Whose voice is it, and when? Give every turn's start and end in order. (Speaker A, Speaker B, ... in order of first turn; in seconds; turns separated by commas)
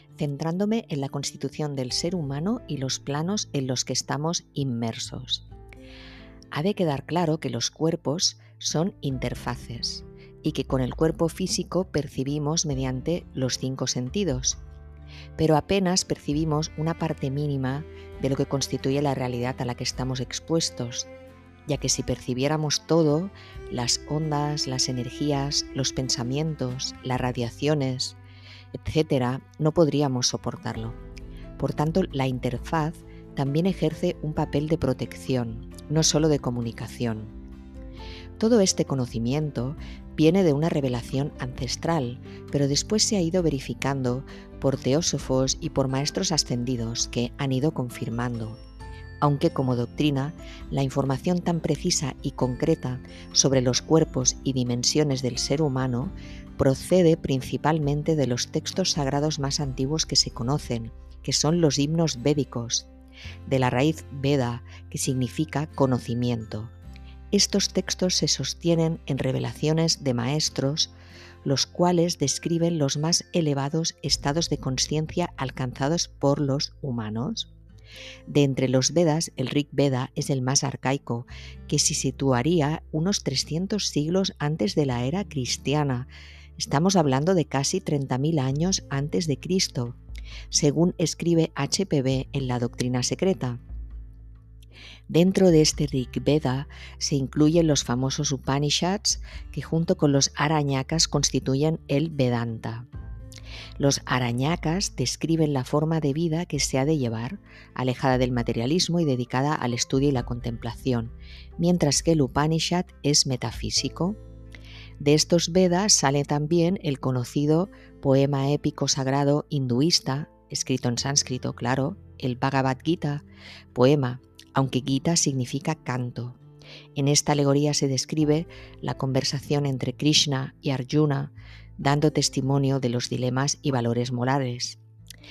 Speaker A: 0.1-5.5, Speaker A: 6.5-14.6, Speaker A: 15.3-21.1, Speaker A: 21.7-28.2, Speaker A: 28.7-31.0, Speaker A: 31.6-37.3, Speaker A: 38.4-48.6, Speaker A: 49.2-62.9, Speaker A: 63.5-66.7, Speaker A: 67.3-70.9, Speaker A: 71.4-77.5, Speaker A: 78.3-90.0, Speaker A: 90.5-93.6, Speaker A: 95.1-102.9, Speaker A: 103.8-114.2, Speaker A: 115.0-126.4, Speaker A: 127.0-134.8